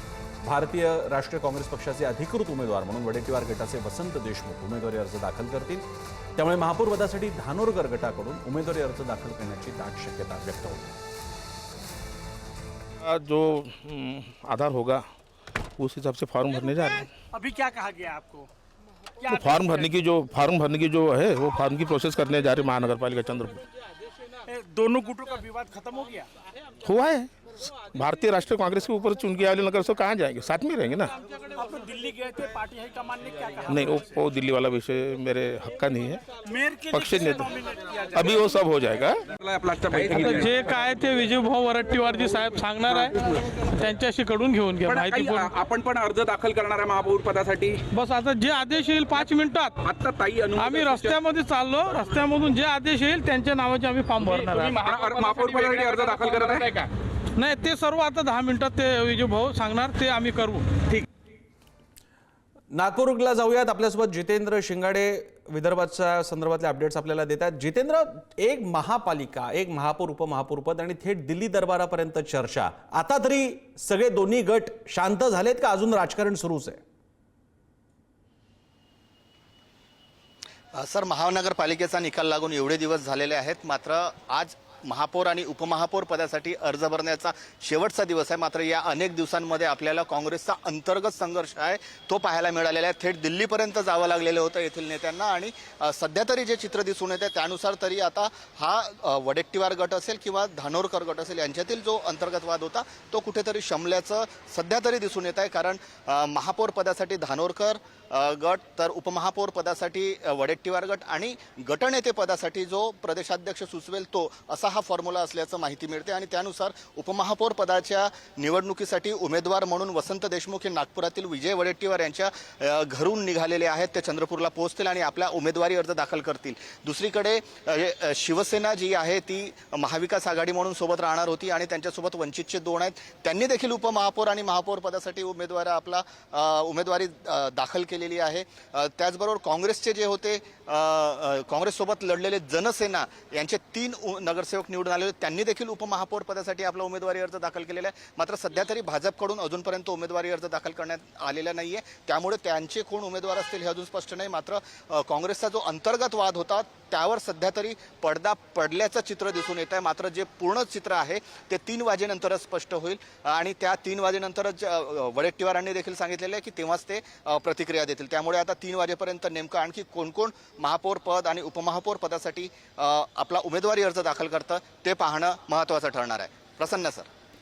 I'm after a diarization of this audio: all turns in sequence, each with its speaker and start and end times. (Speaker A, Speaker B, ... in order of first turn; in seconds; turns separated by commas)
Speaker A: 0.4-5.8, Speaker A: 6.4-11.0, Speaker B: 13.0-15.1, Speaker B: 15.8-17.1, Speaker C: 17.3-18.5, Speaker C: 19.2-19.9, Speaker B: 19.3-23.6, Speaker C: 24.4-26.3, Speaker B: 26.8-31.1, Speaker C: 31.3-33.9, Speaker B: 33.7-36.2, Speaker C: 36.4-38.4, Speaker B: 36.9-37.5, Speaker B: 38.1-39.2, Speaker D: 39.9-45.5, Speaker E: 45.5-47.6, Speaker D: 47.9-49.8, Speaker E: 49.9-50.4, Speaker D: 50.5-55.0, Speaker E: 54.8-56.2, Speaker D: 57.4-60.8, Speaker A: 62.7-76.8, Speaker F: 80.7-177.1